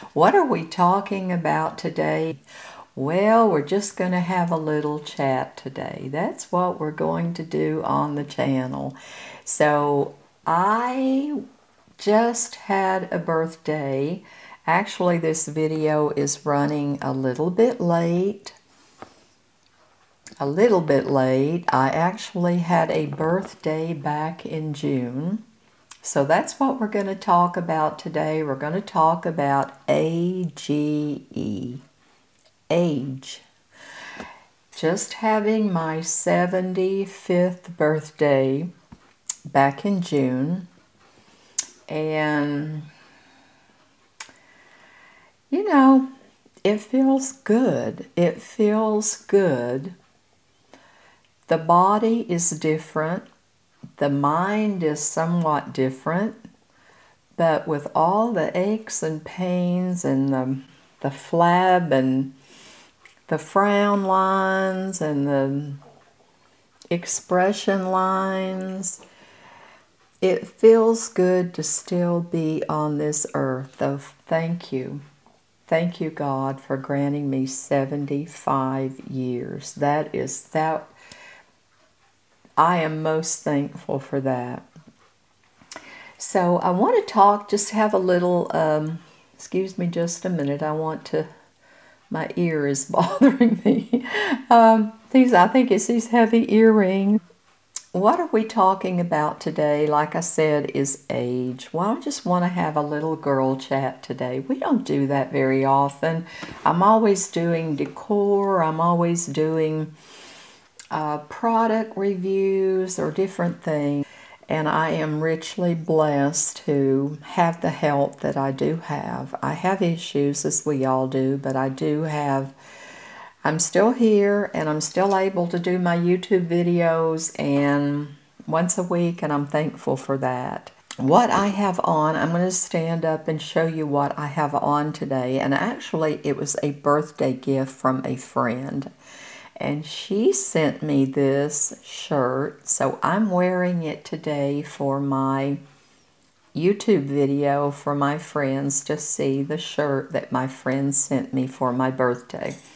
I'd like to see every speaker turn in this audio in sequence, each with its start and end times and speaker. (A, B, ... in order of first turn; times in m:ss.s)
0:00.1-0:02.4 A
0:03.0-0:11.4 A
0:12.0-0:18.6 A
0:20.4-0:25.4 A
0:26.0-0:31.8 A
0:32.7-0:33.4 A
0:34.7-0:38.7 A
0:39.5-0:40.7 A
0:41.9-0:42.9 A
0:45.5-0:46.1 A
0:46.6-0:49.9 A
0:51.5-0:53.2 A
0:54.0-0:56.4 A
0:57.4-1:02.3 A
1:03.3-1:05.8 A
1:06.9-1:09.0 A
1:10.2-1:15.0 A
1:15.7-1:20.9 A
1:22.6-1:24.6 A
1:26.2-1:31.3 A
1:32.1-1:37.2 A
1:37.9-1:49.9 A
1:50.9-2:02.5 A
2:03.4-2:18.9 A
2:19.6-2:25.6 A
2:26.5-2:32.6 A